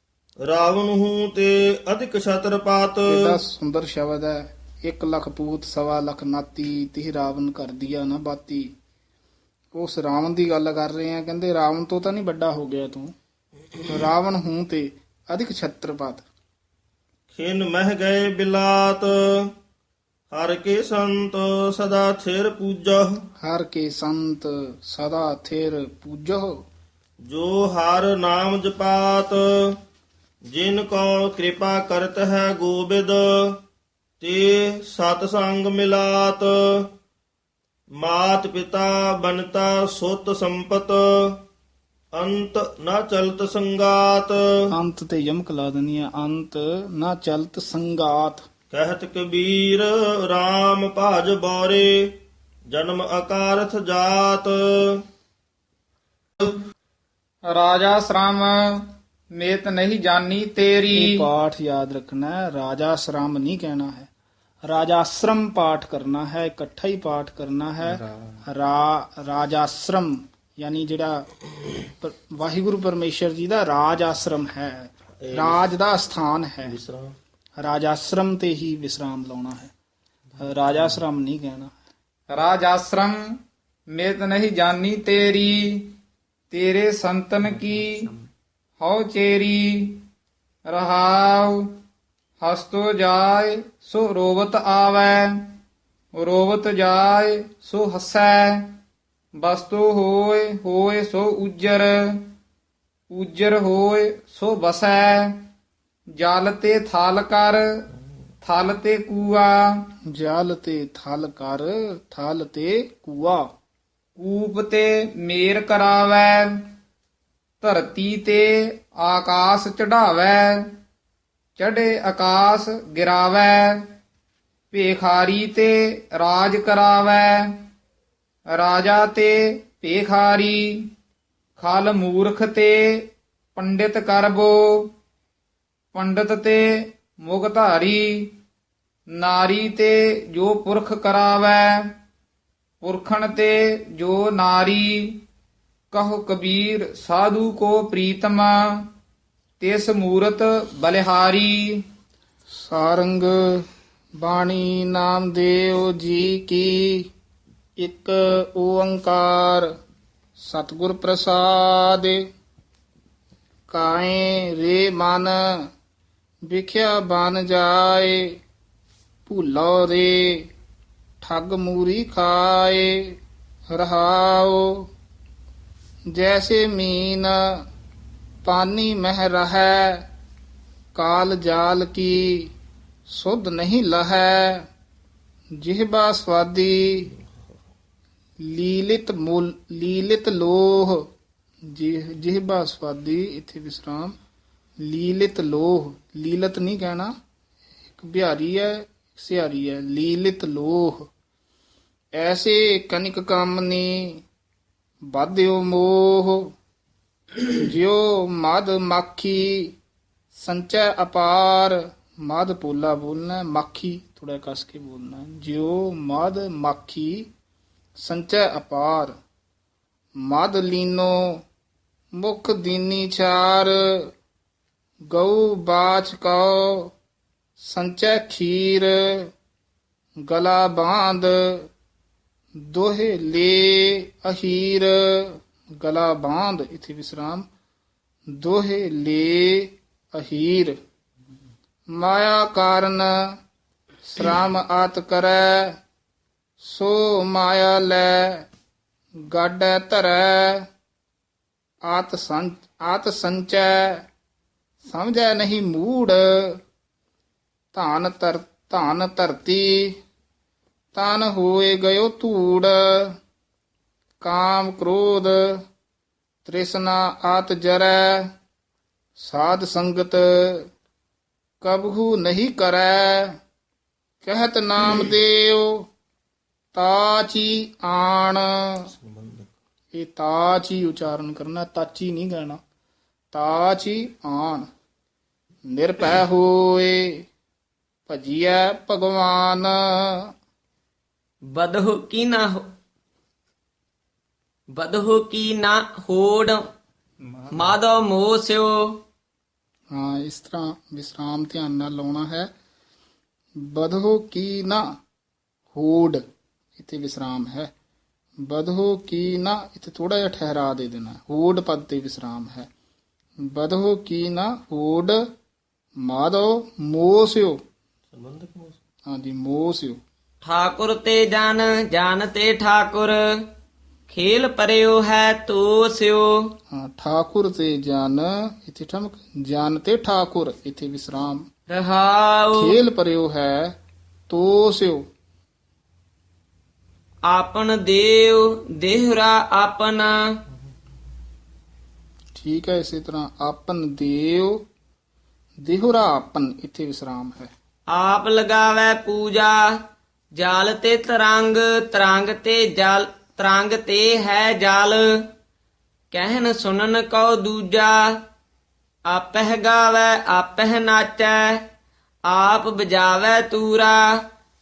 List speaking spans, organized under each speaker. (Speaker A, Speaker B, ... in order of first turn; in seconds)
Speaker A: 0.5-3.4, 17.3-19.5, 20.3-23.2, 27.3-29.7, 30.5-33.6, 34.2-36.9, 38.0-41.4, 42.2-44.4, 48.7-52.2, 52.7-55.0, 75.2-75.6, 76.6-77.2, 279.0-279.5, 318.1-318.8
Speaker B: 3.1-8.7, 9.8-13.1, 13.9-16.2, 23.4-26.6, 44.7-48.4, 60.9-64.1, 64.6-71.3, 72.0-76.7, 77.6-79.7, 80.4-81.7, 110.1-113.5, 152.5-153.7, 154.2-157.1, 157.8-159.7, 160.4-162.3, 163.7-165.7, 166.4-168.4, 169.3-170.5, 171.2-173.2, 173.7-174.9, 176.1-177.7, 178.4-180.1, 180.9-182.5, 183.1-184.7, 185.6-187.1, 188.4-191.1, 191.7-194.2, 194.8-197.1, 197.9-201.1, 202.2-204.2, 205.1-206.5, 207.4-209.8, 210.3-217.3, 218.0-219.2, 220.2-221.4, 222.2-224.1, 225.1-226.9, 227.6-229.3, 230.3-231.7, 232.6-237.5, 238.3-240.8, 241.9-243.4, 244.1-245.8, 246.6-248.4, 249.3-250.7, 251.8-254.1, 254.9-256.6, 257.7-260.0, 260.9-263.2, 264.2-265.6, 266.4-268.3, 269.2-270.7, 271.6-273.4, 274.2-275.9, 276.7-278.9, 279.9-282.6, 283.3-284.7, 285.7-287.3, 288.1-290.3, 299.9-302.5, 303.6-304.8, 305.7-306.2, 306.8-307.7, 308.4-312.7, 313.5-315.2, 316.0-317.6, 319.1-320.0, 326.7-331.4, 332.5-333.8, 334.3-335.1, 342.3-344.7, 345.6-347.5
Speaker C: 57.5-61.2, 82.3-83.4, 83.9-85.9, 86.5-88.1, 88.8-90.1, 90.7-91.8, 92.4-95.5, 96.1-98.8, 99.4-102.3, 103.1-105.4, 106.2-107.8, 108.4-109.9, 114.2-116.6, 117.6-120.7, 121.6-123.9, 124.7-127.6, 128.5-130.9, 131.6-134.9, 135.9-138.3, 139.2-141.9, 142.8-145.2, 145.9-148.9, 149.6-151.8
Speaker D: 291.5-292.6, 294.8-296.6, 297.5-299.0, 320.4-323.4, 324.1-326.5, 331.7-332.8, 337.3-340.2, 347.9-349.7, 350.3-355.3, 356.1-358.2, 359.1-361.6, 362.3-364.2